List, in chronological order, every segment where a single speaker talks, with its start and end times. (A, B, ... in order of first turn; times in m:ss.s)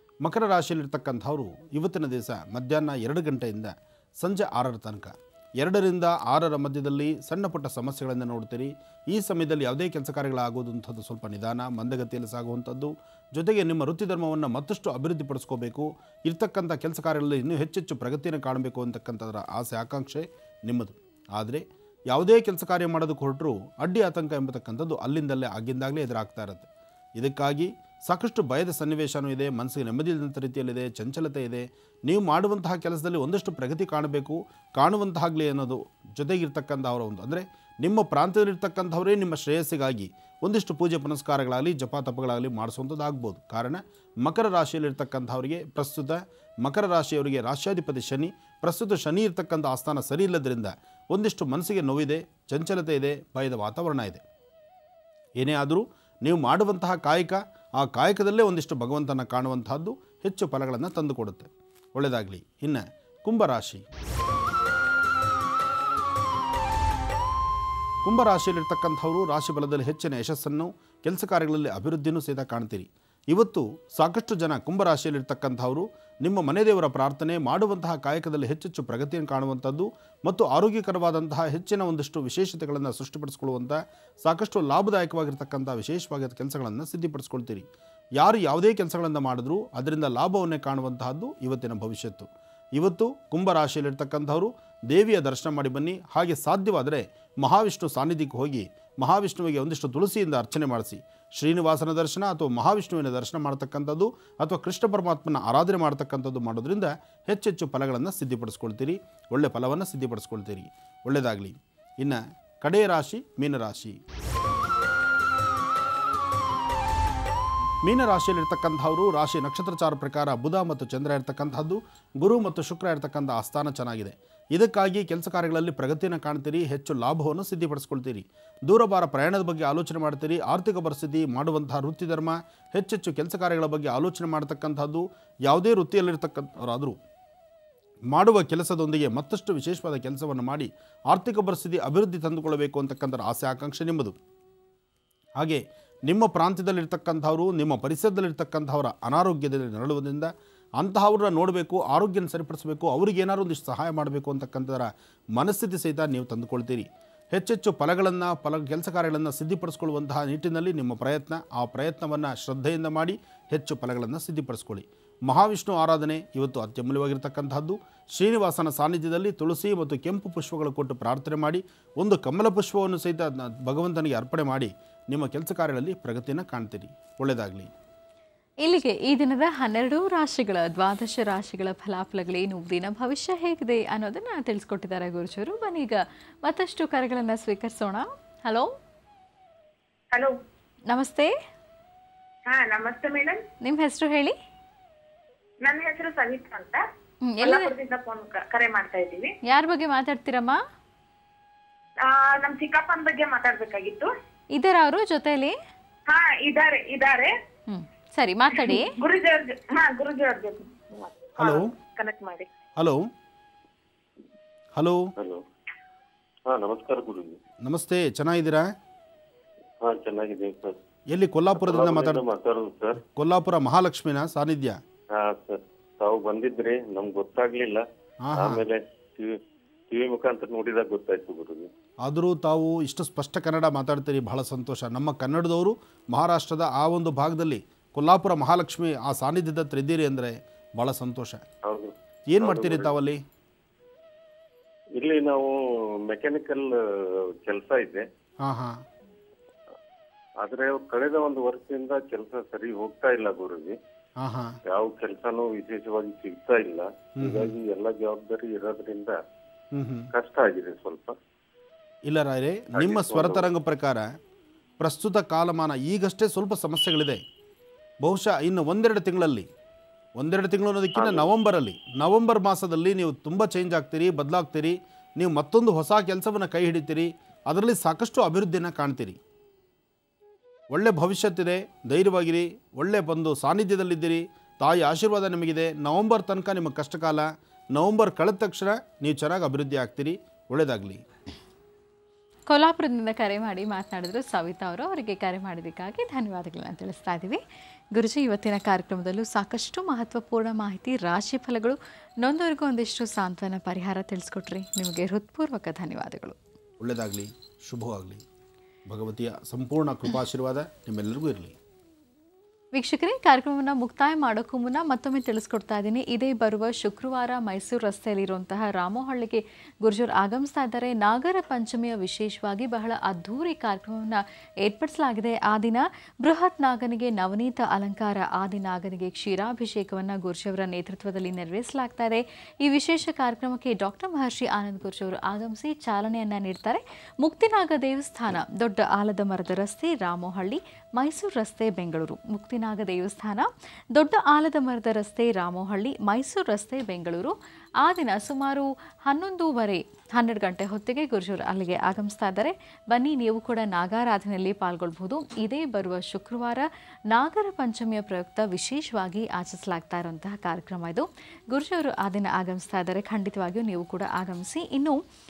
0:00.2-0:54.2 A
0:55.4-1:03.8 A
1:08.0-1:54.0 A
1:57.8-2:17.0 A
2:18.1-2:24.2 A
2:25.4-2:57.7 A
2:58.6-3:08.7 B
3:10.9-3:11.3 B
3:12.5-3:13.4 C
3:13.6-3:14.4 B
3:15.6-3:16.8 C
3:17.2-3:17.7 B
3:17.4-3:19.3 C
3:19.4-3:20.6 B
3:22.0-3:24.1 C
3:24.5-3:25.5 B
3:26.1-3:27.3 C
3:27.7-3:29.0 B
3:28.6-3:32.5 C
3:31.4-3:31.7 A
3:32.8-3:33.1 A
3:34.7-3:35.1 A
3:35.2-3:35.4 D
3:36.5-3:37.4 D
3:37.6-3:38.7 A
3:39.8-3:40.8 D
3:41.1-3:42.2 A
3:41.6-3:43.0 D
3:43.0-3:44.8 A
3:45.1-3:47.8 D
3:48.2-3:48.6 A
3:48.3-3:49.4 D
3:49.9-3:51.7 D
3:52.0-4:01.4 A
4:01.6-4:02.9 D
4:02.3-4:03.2 A
4:05.0-4:05.5 D
4:06.1-4:06.7 D
4:07.4-4:08.0 D
4:08.4-4:08.8 A
4:10.4-4:13.8 D
4:14.2-4:14.6 A
4:14.7-4:19.1 D
4:17.2-4:17.5 A
4:19.7-4:20.1 A
4:20.1-4:21.2 D
4:22.1-4:24.1 A
4:22.7-4:23.5 D
4:24.8-4:27.2 A
4:28.0-4:29.5 A
4:30.2-4:39.2 A
4:31.0-4:31.3 D
4:40.7-4:51.0 A
4:52.5-4:57.4 B
4:57.9-5:06.4 B
5:06.8-5:08.2 A
5:08.9-5:11.6 A
5:12.7-6:05.0 B